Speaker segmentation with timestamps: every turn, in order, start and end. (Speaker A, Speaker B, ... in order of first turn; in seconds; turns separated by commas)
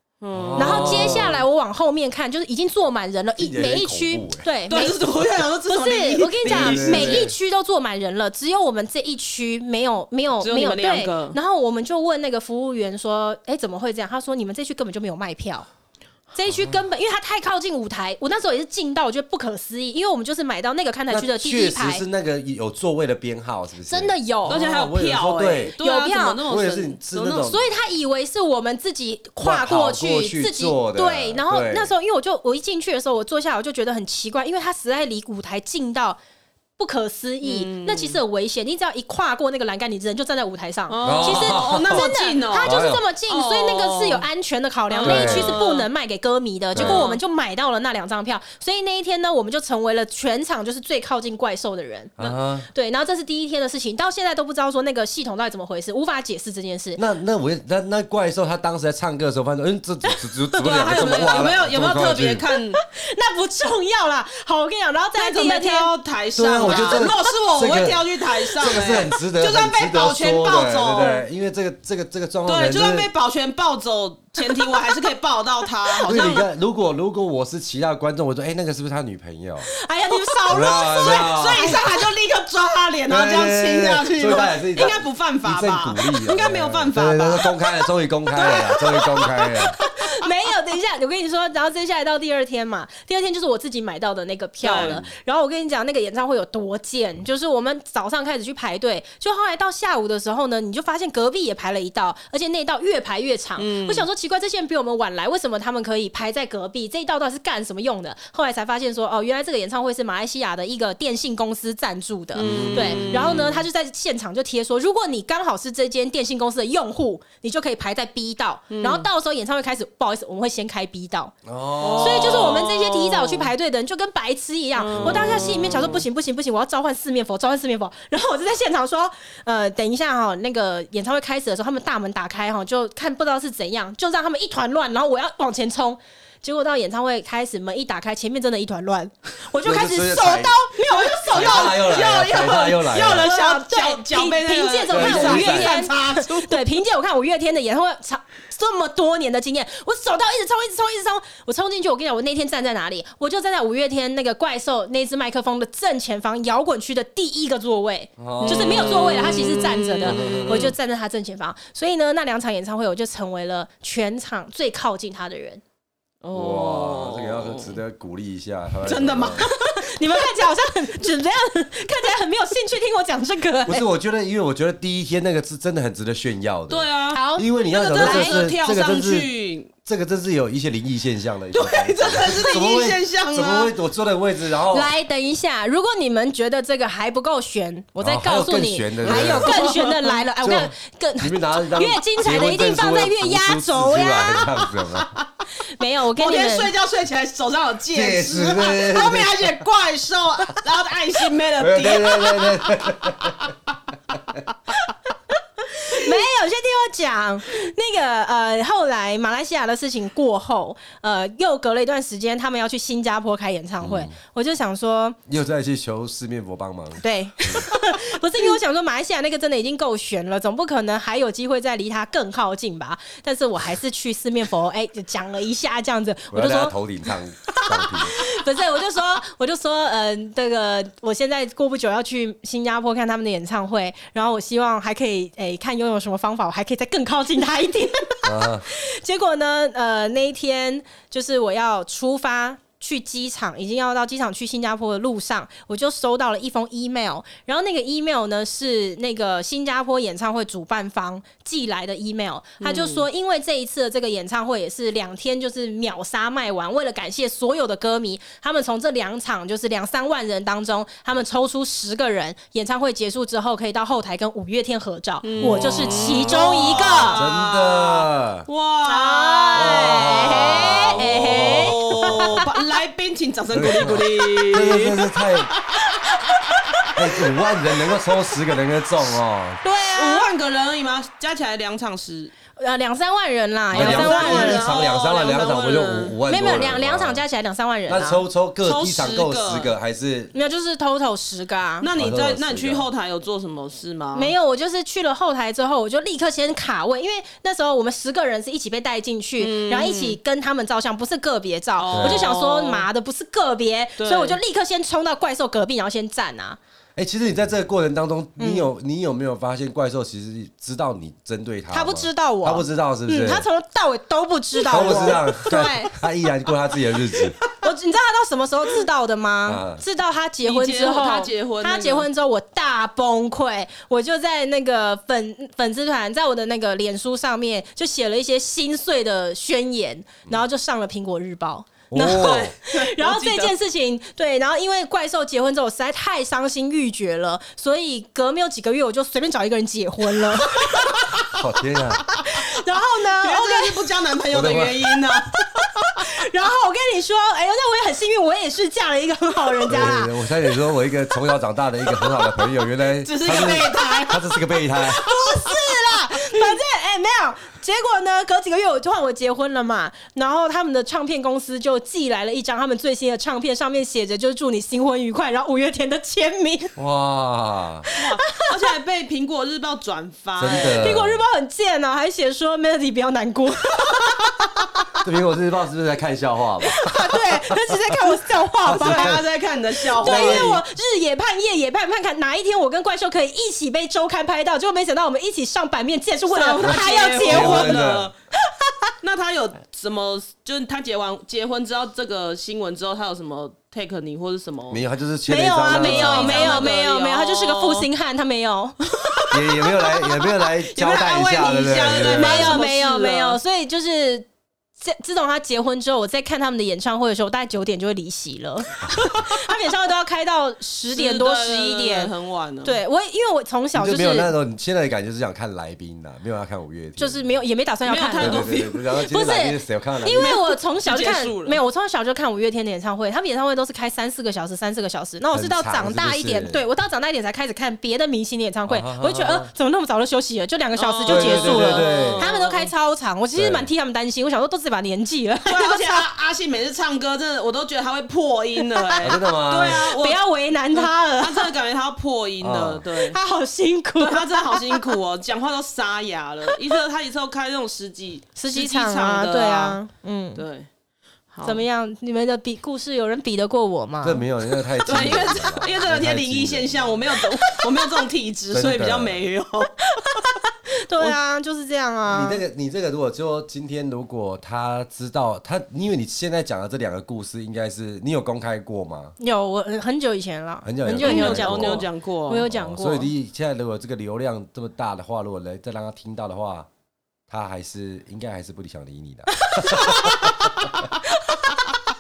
Speaker A: 0.2-1.4, Speaker B: 0.3-1.4, Speaker C: 0.6-5.0, Speaker B: 3.4-4.5, Speaker A: 4.7-7.3, Speaker C: 5.7-15.7, Speaker B: 6.5-7.3, Speaker A: 10.4-11.4, Speaker C: 16.3-22.0, Speaker B: 21.1-25.8, Speaker C: 23.9-24.6, Speaker A: 24.5-27.5, Speaker C: 25.8-26.4, Speaker B: 26.5-27.7, Speaker C: 27.4-36.2, Speaker B: 29.4-31.9, Speaker C: 36.8-57.0, Speaker A: 37.4-38.2, Speaker A: 40.9-44.3, Speaker B: 41.0-43.0, Speaker A: 44.9-45.9, Speaker B: 45.0-45.6, Speaker B: 46.8-47.0, Speaker A: 46.8-47.2, Speaker B: 52.2-52.7, Speaker B: 57.0-62.5, Speaker C: 60.5-61.5, Speaker A: 60.6-62.8, Speaker C: 62.8-66.0, Speaker A: 65.2-71.2, Speaker B: 66.3-73.1, Speaker C: 66.6-67.2, Speaker C: 71.0-71.2, Speaker A: 72.5-76.5, Speaker C: 74.4-74.9, Speaker B: 76.0-79.7, Speaker C: 79.7-81.9, Speaker B: 80.5-81.8, Speaker A: 80.9-87.5, Speaker B: 83.1-89.8, Speaker C: 88.3-121.3, Speaker A: 94.6-95.0, Speaker B: 94.7-95.1, Speaker A: 103.6-104.1, Speaker A: 112.3-113.7, Speaker B: 112.4-113.5, Speaker A: 118.7-119.1, Speaker B: 121.5-122.6, Speaker A: 121.8-123.5, Speaker C: 122.0-141.8, Speaker A: 124.8-126.0, Speaker B: 125.0-125.3, Speaker B: 139.6-140.6, Speaker A: 140.9-146.6, Speaker B: 141.3-143.3, Speaker C: 143.0-165.6, Speaker B: 144.9-145.8, Speaker B: 158.2-159.1, Speaker A: 158.4-160.7, Speaker B: 160.0-160.7, Speaker A: 166.2-167.8, Speaker B: 166.3-169.5, Speaker A: 168.8-169.7, Speaker C: 169.4-173.8, Speaker B: 173.7-179.3, Speaker A: 176.7-179.7, Speaker C: 177.1-178.5, Speaker B: 179.9-184.9, Speaker A: 181.5-183.7, Speaker C: 184.7-194.7, Speaker B: 188.0-189.7, Speaker A: 189.1-190.2, Speaker B: 190.4-195.2, Speaker C: 195.8-196.7, Speaker A: 196.2-202.7, Speaker B: 197.9-199.7, Speaker B: 201.6-203.5, Speaker B: 204.1-204.4, Speaker C: 205.7-215.2, Speaker B: 213.8-214.1, Speaker B: 215.3-217.7, Speaker C: 217.0-226.8, Speaker B: 226.3-228.3, Speaker C: 227.5-267.2, Speaker B: 238.2-238.7, Speaker A: 252.6-253.1, Speaker A: 265.2-276.9, Speaker B: 267.1-268.5, Speaker C: 268.8-272.5, Speaker B: 269.5-272.5, Speaker B: 273.5-275.5, Speaker C: 275.9-276.9, Speaker B: 276.9-279.6, Speaker C: 279.6-280.3, Speaker A: 279.9-282.3, Speaker C: 282.6-284.7, Speaker B: 283.7-287.2, Speaker A: 283.7-286.2, Speaker C: 286.3-288.2, Speaker B: 287.9-290.3, Speaker A: 288.6-289.7, Speaker C: 290.3-291.9, Speaker A: 291.8-294.3, Speaker B: 291.9-292.9, Speaker C: 294.1-306.6, Speaker A: 299.4-300.2, Speaker A: 301.8-302.9, Speaker B: 301.9-302.3, Speaker A: 304.0-304.4, Speaker B: 307.0-313.5, Speaker C: 308.4-308.7, Speaker C: 311.7-316.0, Speaker B: 314.7-317.4, Speaker C: 317.5-341.2, Speaker B: 319.5-319.8, Speaker A: 320.4-322.1, Speaker B: 331.9-332.5, Speaker A: 332.1-333.5, Speaker B: 341.3-342.1, Speaker C: 342.1-343.9, Speaker A: 343.2-345.4, Speaker B: 344.3-344.8, Speaker C: 345.5-350.3, Speaker B: 349.7-355.1, Speaker A: 353.0-354.2, Speaker C: 354.8-366.8, Speaker B: 366.8-367.9, Speaker C: 367.9-368.5, Speaker A: 367.9-371.0, Speaker B: 370.4-371.2, Speaker C: 370.8-374.7, Speaker B: 375.0-379.3, Speaker C: 376.6-379.2, Speaker A: 378.7-380.6, Speaker B: 379.9-380.6, Speaker C: 380.0-387.9, Speaker A: 386.3-388.1, Speaker B: 386.7-388.1, Speaker C: 388.7-388.9, Speaker A: 389.0-394.8, Speaker B: 394.7-396.8, Speaker C: 395.3-399.3, Speaker A: 395.8-397.9, Speaker A: 399.1-399.4, Speaker B: 399.3-402.6, Speaker A: 400.7-403.4, Speaker C: 402.0-404.3, Speaker C: 404.8-412.1, Speaker A: 410.9-412.8, Speaker C: 412.6-414.3, Speaker B: 413.8-417.2, Speaker C: 417.0-418.5, Speaker A: 417.9-418.9, Speaker B: 418.2-420.4, Speaker C: 419.0-436.1, Speaker A: 420.2-421.6, Speaker B: 425.3-426.6, Speaker B: 428.7-429.5, Speaker A: 430.8-432.7, Speaker B: 431.1-432.2, Speaker B: 433.4-433.7, Speaker A: 435.5-443.2, Speaker C: 438.6-438.9, Speaker B: 439.0-439.9, Speaker C: 440.0-441.5, Speaker B: 442.4-442.8, Speaker C: 443.0-444.9, Speaker A: 444.0-449.8, Speaker C: 448.4-450.4, Speaker A: 450.4-450.7, Speaker A: 451.3-451.6, Speaker C: 451.4-454.3, Speaker B: 454.0-457.3, Speaker A: 454.9-459.7, Speaker B: 458.5-459.2, Speaker C: 459.9-462.4, Speaker B: 462.1-469.1, Speaker C: 469.2-473.1, Speaker B: 470.6-471.9, Speaker A: 471.0-472.4, Speaker B: 472.4-476.7, Speaker B: 477.3-480.9, Speaker C: 479.4-480.2, Speaker C: 481.1-481.8